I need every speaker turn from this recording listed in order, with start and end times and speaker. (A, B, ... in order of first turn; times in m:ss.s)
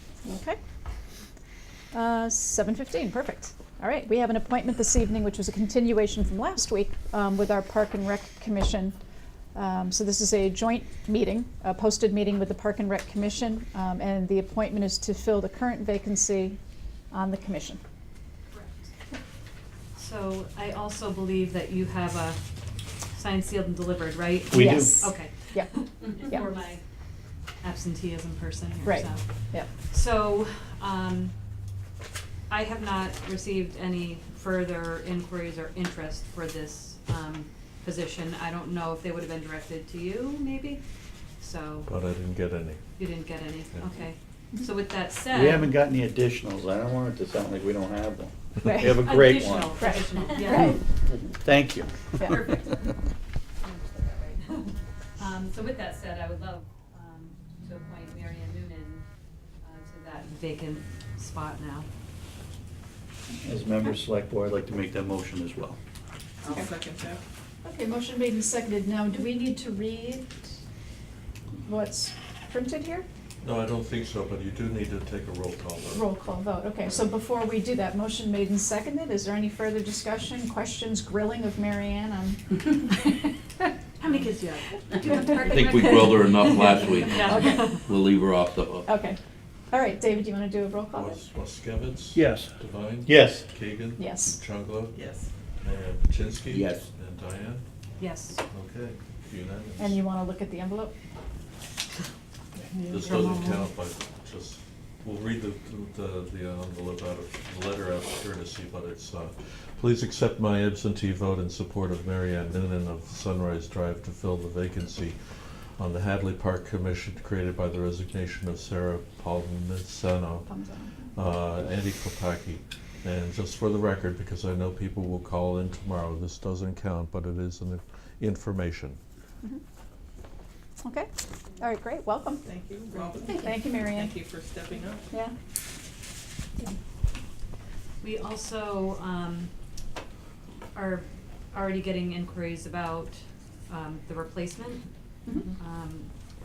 0:00.2-0:00.6 A
0:01.9-0:09.0 A
0:09.5-0:16.6 A
0:17.1-0:17.8 A
0:18.5-0:18.9 B
0:20.0-0:22.4 B
0:23.0-0:26.8 B
0:24.5-0:25.1 C
0:24.6-0:26.5 A
0:27.6-0:31.4 B
0:28.8-0:29.7 A
0:32.5-0:40.8 B
0:41.4-0:41.9 B
0:41.9-0:43.0 D
0:43.0-0:45.7 B
0:43.7-0:44.0 D
0:45.3-0:49.9 C
0:48.6-0:49.0 A
0:49.0-0:51.1 B
0:49.8-0:50.8 A
0:51.4-0:52.4 C
0:52.3-0:59.0 B
0:59.6-1:01.9 B
1:03.4-1:05.8 C
1:06.4-1:07.2 E
1:06.4-1:06.7 A
1:07.6-1:10.4 A
1:11.6-1:13.0 A
1:13.4-1:16.0 D
1:15.9-1:23.2 A
1:24.0-1:27.9 B
1:25.1-1:26.1 A
1:25.5-1:28.9 F
1:27.2-1:27.8 A
1:28.9-1:29.2 A
1:29.7-1:31.2 A
1:30.9-1:35.0 D
1:32.2-1:32.5 C
1:33.0-1:33.5 C
1:34.0-1:34.4 A
1:34.9-1:35.3 E
1:35.6-1:37.6 D
1:36.5-1:36.9 F
1:38.0-1:38.4 B
1:38.5-1:40.0 D
1:39.8-1:40.9 A
1:42.7-1:43.3 E
1:42.9-2:00.5 D
1:43.0-1:43.6 B
2:00.5-2:01.1 A
2:01.1-2:09.0 D
2:10.8-2:12.4 A
2:12.4-2:15.1 E
2:13.2-2:14.2 A
2:18.0-2:19.5 B
2:20.7-2:24.9 B
2:25.3-2:25.5 A
2:25.5-2:26.1 B